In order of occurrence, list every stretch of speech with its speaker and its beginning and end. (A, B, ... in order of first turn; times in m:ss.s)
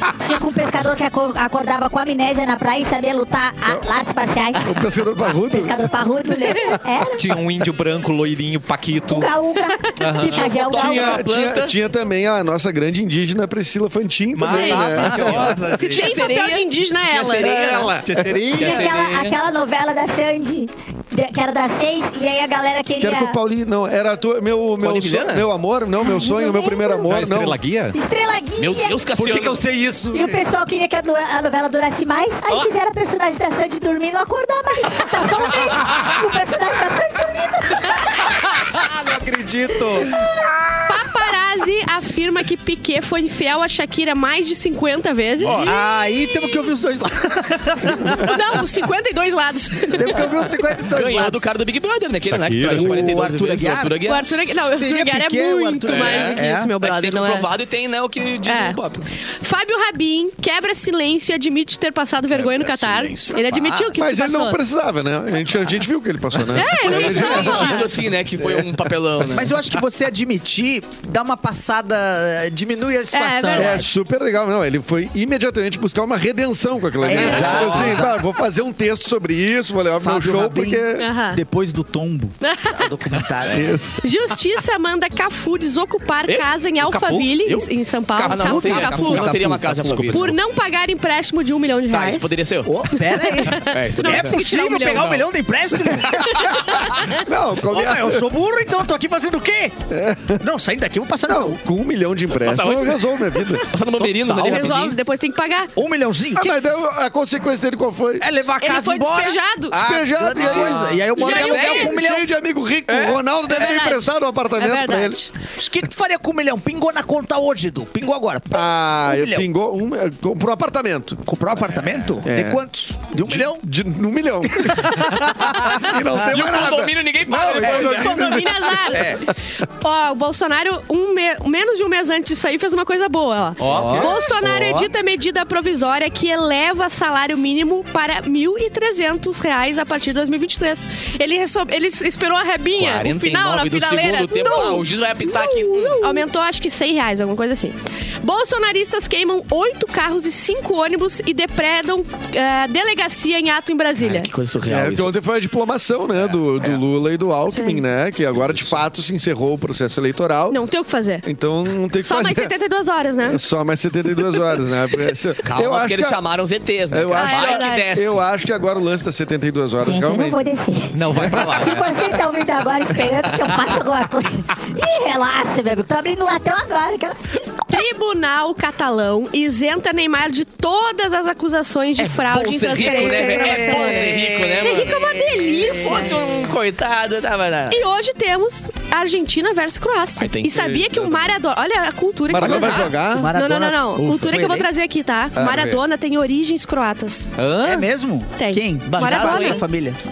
0:00.2-0:04.9 A
0:04.6-0:05.9 B
0:05.5-0:07.2 A
0:07.2-0:09.3 C
0:09.1-0:11.2 A
0:09.9-0:10.6 C
0:10.2-0:11.7 D
0:10.7-0:16.0 B
0:14.3-0:16.2 C
0:14.4-0:14.8 E
0:14.4-0:18.0 D
0:15.7-0:17.9 E
0:17.3-0:18.6 B
0:18.0-0:19.0 C
0:18.5-0:19.4 D
0:18.5-0:23.4 A
0:23.0-0:27.6 B
0:24.8-0:25.5 D
0:26.0-0:27.1 A
0:27.1-0:28.0 C
0:27.9-0:29.2 A
0:28.6-0:29.6 D
0:29.1-0:30.4 C
0:30.1-0:38.3 A
0:38.2-0:40.2 C
0:39.7-0:40.2 A
0:40.8-0:45.8 E
0:45.4-0:45.7 D
0:45.6-0:48.6 F
0:48.2-0:50.5 E
0:49.9-0:51.5 F
0:50.9-0:54.6 D
0:52.2-0:53.3 C
0:52.7-0:56.7 F
0:54.0-0:57.5 E
0:55.8-0:59.0 D
0:58.4-0:58.8 E
0:59.4-1:04.6 E
1:02.3-1:04.0 D
1:04.0-1:08.7 B
1:06.5-1:07.9 E
1:06.5-1:09.5 D
1:09.2-1:13.9 F
1:13.1-1:13.8 E
1:13.6-1:21.1 B
1:17.0-1:18.2 F
1:17.1-1:17.5 D
1:17.2-1:18.0 C
1:20.0-1:23.7 F
1:21.0-1:21.4 E
1:22.4-1:22.9 E
1:23.4-1:23.7 D
1:23.5-1:24.0 B
1:24.0-1:29.3 E
1:26.8-1:27.3 C
1:27.4-1:30.4 D
1:28.2-1:30.3 F
1:28.7-1:29.3 C
1:29.9-1:30.2 C
1:30.1-1:32.4 E
1:31.9-1:32.7 D
1:32.6-1:36.9 F
1:33.1-1:35.2 E
1:33.7-1:34.4 D
1:34.9-1:35.2 D
1:36.3-1:37.2 E
1:37.0-1:38.3 B
1:37.6-1:39.8 F
1:39.9-1:40.4 B
1:40.4-1:41.6 F
1:41.3-1:43.7 B
1:42.3-1:45.0 D
1:44.2-1:44.6 C
1:44.4-1:45.7 E
1:45.8-1:46.6 F
1:46.4-1:48.2 B
1:48.2-1:52.3 F
1:48.6-1:49.8 E
1:49.7-1:55.2 B
1:50.4-1:51.9 D
1:51.2-1:51.9 E
1:52.9-1:53.2 D
1:53.5-1:55.3 E
1:55.6-1:59.5 F
1:58.5-2:01.2 B
2:01.2-2:03.6 F
2:02.2-2:02.6 B
2:03.2-2:09.3 B
2:04.8-2:06.2 F
2:06.2-2:08.4 D
2:07.5-2:08.4 F
2:07.9-2:34.3 E
2:13.6-2:14.1 C
2:13.6-2:14.6 F
2:13.8-2:14.0 B
2:22.8-2:26.2 D
2:34.0-2:35.2 D
2:34.6-2:40.6 B
2:36.2-2:36.8 D
2:37.5-2:37.8 E
2:38.4-2:38.7 D
2:40.5-2:41.2 E
2:41.2-2:42.5 B
2:42.0-2:43.4 E
2:43.2-2:46.2 B
2:45.4-2:48.2 D
2:46.9-2:50.4 B
2:47.1-2:48.0 E
2:49.8-2:57.2 A
2:50.9-2:52.1 C
2:51.2-2:51.7 B
2:57.6-3:06.2 E
3:02.0-3:07.8 D
3:02.8-3:06.3 F
3:07.7-3:17.3 E
3:10.2-3:10.7 D
3:10.5-3:11.3 B
3:12.3-3:13.4 B
3:12.4-3:12.9 D
3:12.4-3:14.7 F
3:15.4-3:15.8 C
3:17.4-3:17.9 C
3:17.6-3:20.0 F
3:18.4-3:19.6 E
3:18.9-3:19.6 D